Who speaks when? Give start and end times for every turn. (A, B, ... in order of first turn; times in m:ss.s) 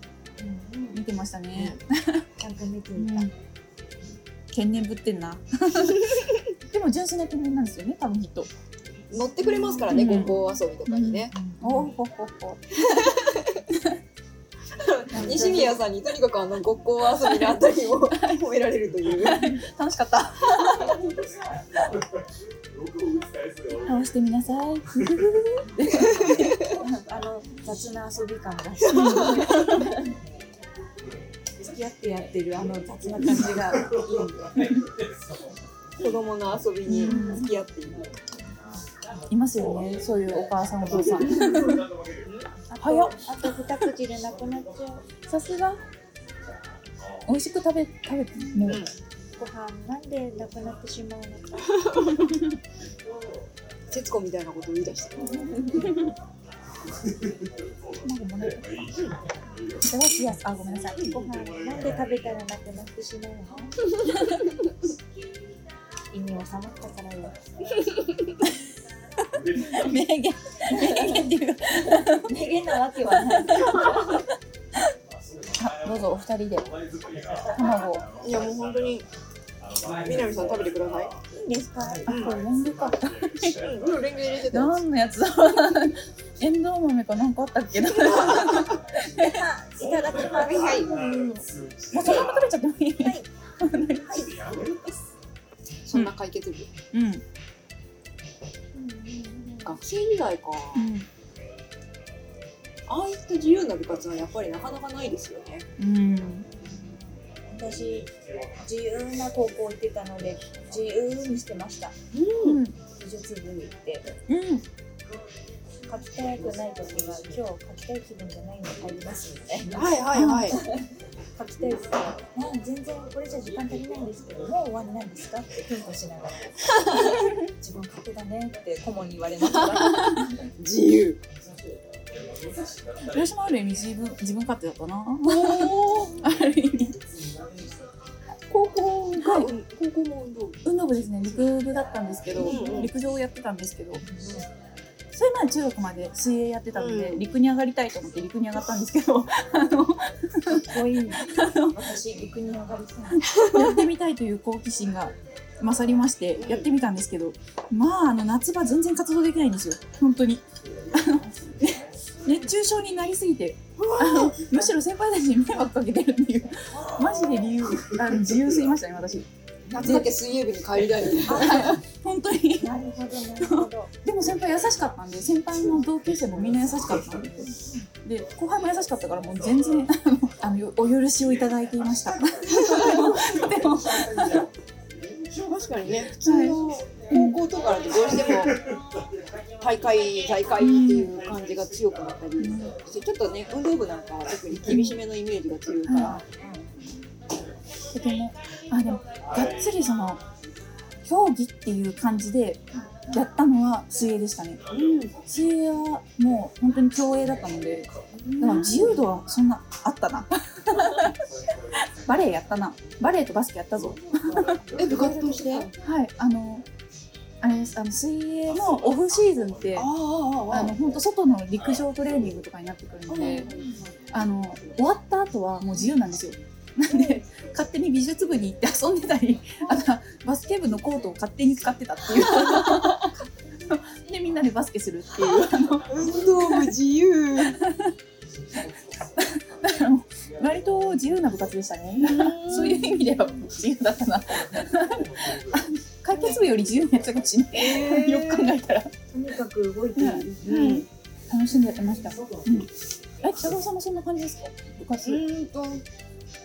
0:00.4-0:01.0 A
0:00.9-0:02.2 B
0:02.4-0:03.3 A
0:03.0-0:03.3 B
0:04.5-0:06.0 B
0:06.7-0:08.5 B
0:09.1-0:11.3 C
0:09.4-0:10.4 A
0:09.9-0:10.3 B
0:10.9-0:12.9 B
0:11.3-0:11.9 A
0:12.8-0:13.6 C
0:14.7-0:19.5 C
0:15.2-0:15.7 A
0:15.2-0:15.6 B
0:17.2-0:17.6 B
0:18.1-0:18.4 B
0:19.2-0:20.9 B
0:23.7-0:26.3 B
0:26.1-0:26.7 C
0:26.8-0:29.9 A
0:28.8-0:29.7 C
0:28.9-0:29.8 B
0:31.6-0:34.5 A
0:36.0-0:38.1 C
0:36.9-0:37.5 B
0:37.0-0:37.4 A
0:39.3-0:41.8 B
0:41.2-0:41.5 C
0:41.2-0:41.8 A
0:42.2-0:42.5 C
0:42.7-0:43.2 B
0:42.8-0:45.0 A
0:45.3-0:45.8 B
0:47.2-0:48.8 B
0:48.6-0:48.9 C
0:49.4-0:51.8 A
0:53.9-0:55.5 C
0:55.3-0:55.8 A
0:58.0-0:58.8 B
0:59.8-1:01.1 B
1:00.9-1:03.8 A
1:06.1-1:07.3 A
1:09.6-1:12.3 B
1:10.8-1:11.3 A
1:12.2-1:14.1 A
1:13.0-1:14.2 B
1:15.6-1:16.7 B
1:17.5-1:18.0 B
1:18.2-1:19.1 C
1:19.8-1:21.2 C
1:21.3-1:22.1 A
1:22.0-1:23.6 B
1:22.1-1:22.3 C
1:23.5-1:24.8 C
1:24.5-1:29.4 B
1:28.0-1:28.7 C
1:29.2-1:31.0 A
1:30.9-1:34.3 B
1:35.8-1:36.7 C
1:36.9-1:37.2 B
1:38.7-1:39.8 A
1:39.6-1:40.9 C
1:40.7-1:41.1 B
1:42.9-1:45.7 C
1:45.8-1:46.4 B
1:47.5-1:48.1 A
1:48.6-1:52.0 A
1:52.1-1:52.6 C
1:52.4-1:52.8 B
1:52.9-1:54.0 A
1:54.3-1:54.6 B
1:55.9-1:59.8 A
1:59.7-2:00.6 C
2:00.1-2:00.5 B
2:01.4-2:10.3 A
2:09.9-2:10.2 B
2:10.6-2:11.2 C
2:13.0-2:16.9 B
2:15.2-2:16.2 C
2:18.5-2:20.6 C
2:19.1-2:19.5 B
2:20.6-2:24.0 B
2:22.4-2:22.9 C
2:22.4-2:22.9 A
2:25.1-2:31.8 B
2:26.8-2:27.3 C
2:30.6-2:33.3 A
2:33.1-2:50.1 B
2:33.5-2:33.8 C
2:36.4-2:36.7 C
2:43.8-2:44.7 C
2:49.7-2:51.7 C
2:51.2-2:52.7 B
2:51.3-2:51.7 A
2:52.6-2:53.9 A
2:53.4-2:57.5 B
2:58.0-3:04.5 B
3:02.5-3:03.2 C
3:05.3-3:08.6 C
3:06.2-3:07.4 B
3:09.6-3:16.2 C
3:10.6-3:11.1 B
3:12.4-3:12.7 B
3:14.7-3:14.9 B
3:15.9-3:16.2 B
3:15.9-3:16.6 A
3:17.9-3:20.2 B
3:21.0-3:24.6 B
3:24.7-3:25.1 C
3:25.2-3:31.1 B
3:28.2-3:29.0 A
3:28.4-3:28.7 C
3:32.0-3:34.6 B
3:34.7-3:35.7 A
3:34.7-3:35.7 C
3:35.8-3:36.6 B
3:37.4-3:39.9 B
3:39.7-3:40.8 C
3:40.5-3:43.5 B
3:43.1-3:43.6 C
3:43.4-3:43.7 A
3:44.1-3:53.1 B
3:53.7-3:55.9 B
3:55.2-3:57.6 C
3:57.6-3:57.9 B
3:59.2-4:08.9 B
4:02.0-4:03.0 C
4:07.5-4:08.5 C
4:09.1-4:10.8 A
4:10.0-4:12.7 B
4:10.4-4:10.8 C
4:13.2-4:15.2 B
4:15.0-4:15.8 C